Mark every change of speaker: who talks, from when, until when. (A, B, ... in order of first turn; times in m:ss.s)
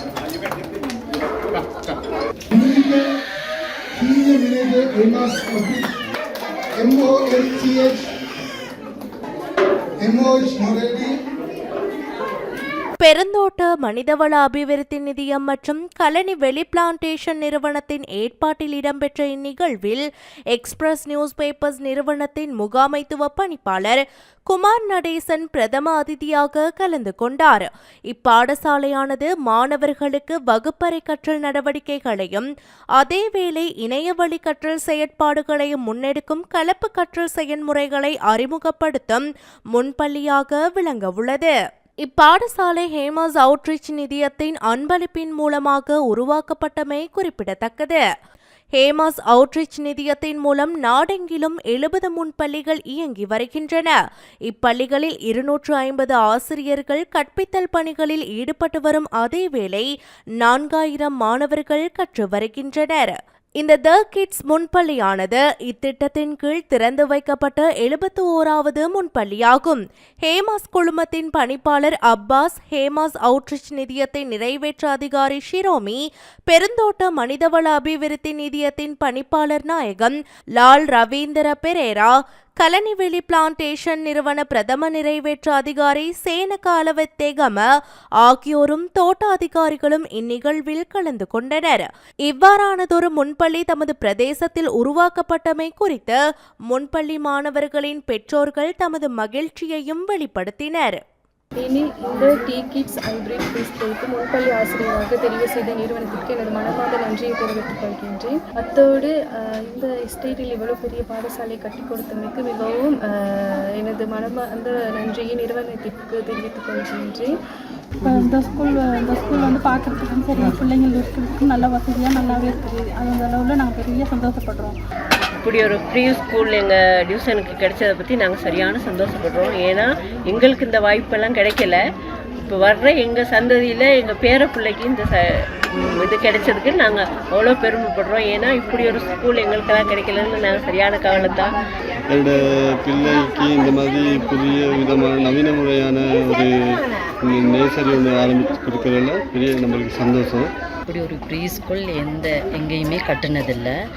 0:02.5-0:03.1 A
0:03.9-0:05.9 A
0:06.7-0:08.1 A
0:10.0-0:11.2 A
0:13.0-0:32.5 B
0:33.0-0:48.0 B
0:48.8-0:54.0 B
0:54.5-0:59.9 B
1:00.4-1:27.6 B
1:28.2-1:36.2 B
1:36.7-1:41.0 B
1:41.6-1:57.3 C
1:58.0-2:04.8 D
2:05.4-2:11.8 E
2:12.4-2:15.2 E
2:15.7-2:21.5 E
2:22.1-2:26.5 F
2:27.2-2:30.5 F
2:30.9-2:33.7 G